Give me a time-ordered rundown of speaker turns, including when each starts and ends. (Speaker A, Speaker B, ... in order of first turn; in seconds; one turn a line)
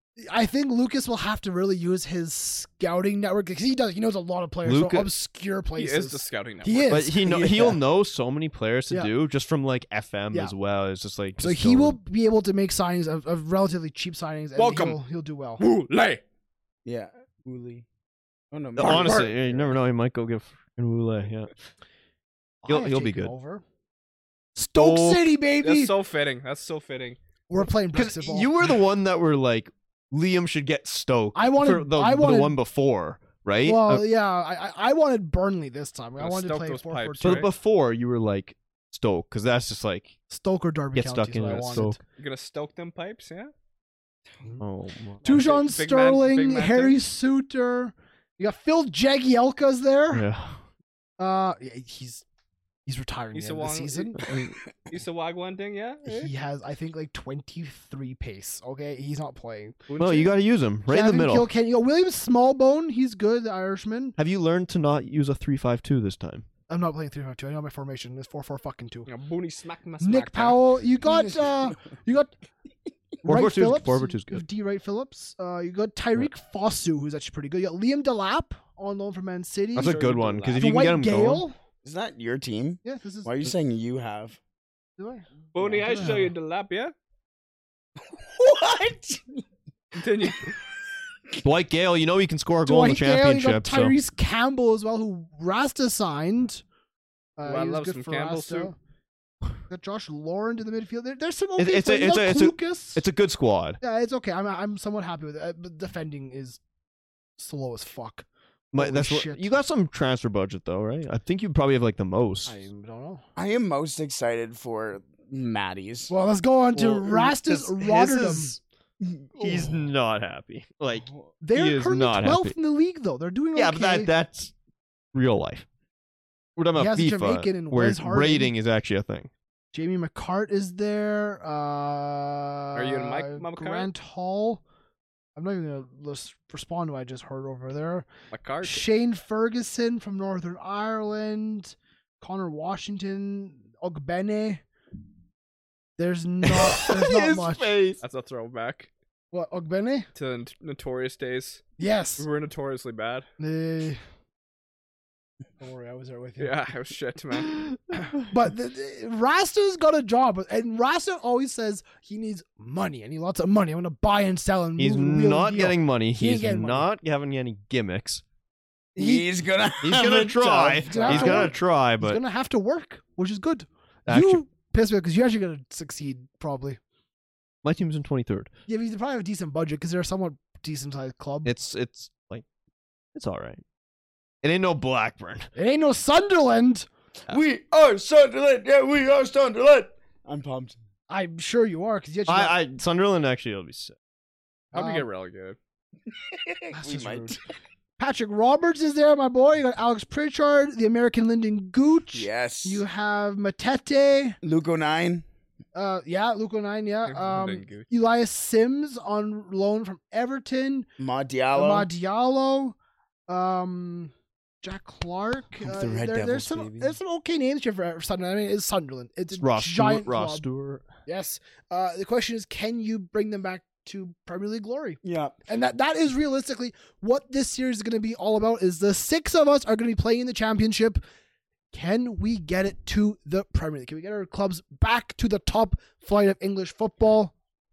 Speaker A: 0.2-7.7
Speaker B: 4.6-5.1
Speaker C: 5.8-7.0
Speaker B: 6.9-12.0
Speaker D: 7.3-7.7
Speaker A: 11.4-15.6
Speaker C: 14.6-15.0
Speaker C: 15.6-16.2
Speaker D: 16.8-17.9
Speaker D: 18.5-19.8
Speaker C: 18.8-19.3
Speaker B: 18.8-21.5
Speaker A: 22.6-23.6
Speaker B: 22.6-23.3
Speaker A: 24.6-25.9
Speaker B: 24.8-25.2
Speaker C: 25.6-27.2
Speaker A: 27.5-28.5
Speaker B: 27.9-34.0
Speaker A: 31.3-32.6
Speaker A: 33.6-37.5
Speaker C: 36.2-37.5
Speaker B: 37.2-40.1
Speaker A: 40.3-42.0
Speaker B: 40.9-42.0
Speaker C: 41.5-43.5
Speaker B: 44.6-45.4
Speaker A: 45.2-50.2
Speaker C: 45.2-47.0
Speaker B: 50.1-50.6
Speaker A: 51.2-52.2
Speaker A: 52.9-54.1
Speaker C: 53.3-54.2
Speaker B: 54.2-54.5
Speaker C: 54.9-56.3
Speaker A: 56.1-59.9
Speaker C: 59.9-60.3
Speaker B: 60.0-61.5
Speaker A: 60.9-64.1
Speaker B: 64.2-66.5
Speaker A: 66.7-69.1
Speaker C: 69.1-70.6
Speaker A: 70.0-72.3
Speaker D: 71.1-71.4
Speaker A: 73.2-80.0
Speaker B: 73.2-74.4
Speaker B: 79.8-81.4
Speaker C: 79.8-80.6
Speaker A: 80.6-81.6
Speaker D: 81.8-84.4
Speaker A: 82.8-83.3
Speaker A: 85.0-85.2
Speaker C: 85.5-86.9
Speaker D: 85.5-86.1
Speaker A: 85.9-86.3
Speaker D: 88.0-89.4
Speaker C: 90.0-90.5
Speaker B: 91.4-94.0
Speaker A: 92.6-96.6
Speaker A: 97.4-98.7
Speaker C: 97.4-98.7
Speaker A: 99.7-103.0
Speaker B: 101.6-103.8
Speaker A: 103.8-106.6
Speaker A: 107.4-108.2
Speaker B: 108.7-112.6
Speaker A: 108.8-109.5
Speaker A: 112.5-113.2
Speaker D: 113.3-116.1
Speaker A: 116.1-118.5
Speaker B: 116.7-118.6
Speaker D: 119.0-119.9
Speaker B: 119.4-122.5
Speaker A: 121.4-124.1
Speaker B: 123.5-124.5
Speaker B: 125.1-125.6
Speaker B: 126.6-129.3
Speaker A: 126.8-128.5
Speaker A: 129.7-134.6
Speaker C: 132.8-133.9
Speaker A: 135.3-138.1
Speaker C: 138.3-138.8
Speaker A: 138.6-144.6
Speaker A: 146.0-147.8
Speaker B: 146.5-148.0
Speaker C: 148.0-148.9
Speaker A: 149.3-150.1
Speaker C: 150.1-151.6
Speaker A: 151.8-152.2
Speaker C: 152.2-153.3
Speaker A: 153.4-154.0
Speaker A: 155.6-156.5
Speaker C: 156.4-157.6
Speaker A: 158.0-166.9
Speaker B: 164.8-168.2
Speaker D: 168.9-171.6
Speaker A: 169.0-169.3
Speaker B: 169.8-172.2
Speaker A: 170.8-176.8
Speaker B: 174.1-174.4
Speaker B: 177.6-178.5
Speaker A: 178.7-181.5
Speaker B: 181.4-182.4
Speaker B: 183.1-183.6
Speaker B: 184.4-185.5
Speaker A: 185.6-186.9
Speaker D: 187.3-190.8
Speaker A: 191.1-192.6
Speaker B: 192.3-193.9
Speaker C: 194.7-195.6
Speaker A: 194.7-195.0
Speaker D: 196.2-197.4
Speaker A: 196.7-197.4
Speaker A: 198.0-204.4
Speaker D: 202.1-202.8
Speaker D: 204.4-205.2
Speaker A: 205.7-210.9
Speaker C: 207.1-207.8
Speaker D: 211.0-211.9
Speaker A: 211.5-212.8
Speaker A: 213.3-214.1
Speaker A: 214.6-220.4
Speaker D: 215.6-217.0
Speaker B: 219.3-220.9
Speaker A: 221.1-231.0
Speaker D: 225.0-225.4
Speaker A: 231.7-237.3